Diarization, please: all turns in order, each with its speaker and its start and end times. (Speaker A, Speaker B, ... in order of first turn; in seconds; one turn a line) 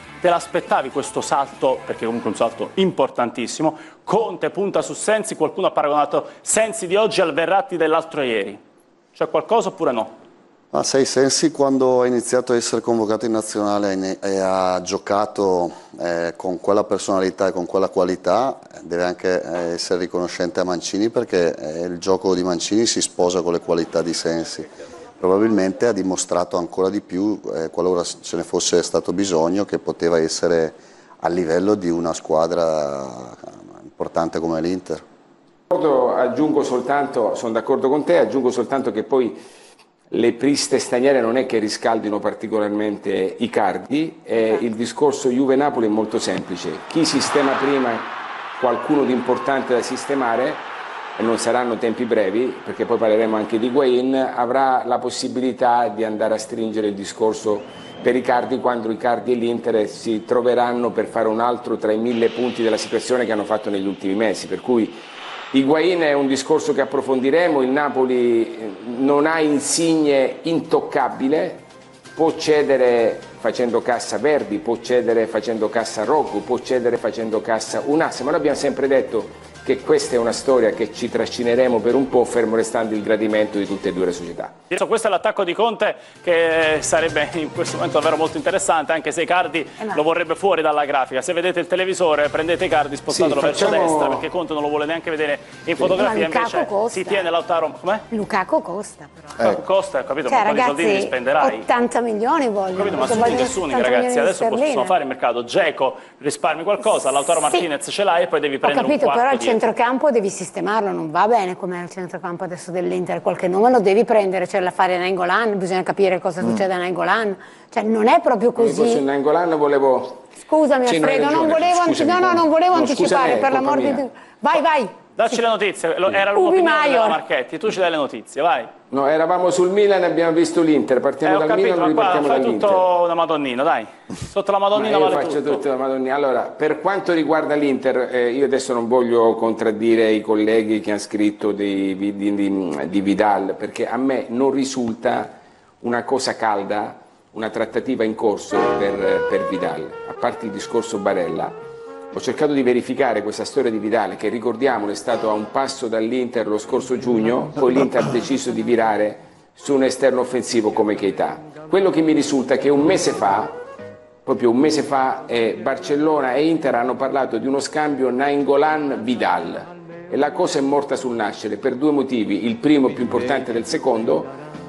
Speaker A: 0.2-8.6
Speaker A: 9.2-10.2
Speaker B: 10.7-24.7
Speaker B: 25.2-35.0
Speaker C: 35.7-39.4
Speaker C: 40.1-65.0
Speaker C: 65.5-84.6
Speaker A: 84.7-98.1
Speaker C: 93.1-94.3
Speaker D: 95.9-97.3
Speaker D: 98.1-99.3
Speaker A: 99.4-101.7
Speaker D: 100.3-105.0
Speaker A: 102.7-109.6
Speaker D: 108.6-119.0
Speaker C: 118.6-120.3
Speaker D: 120.4-124.9
Speaker C: 120.8-124.0
Speaker A: 125.2-128.7
Speaker D: 126.3-127.2
Speaker C: 128.9-132.9
Speaker A: 131.2-135.6
Speaker C: 134.7-151.6
Speaker C: 152.1-163.6
Speaker C: 164.2-174.3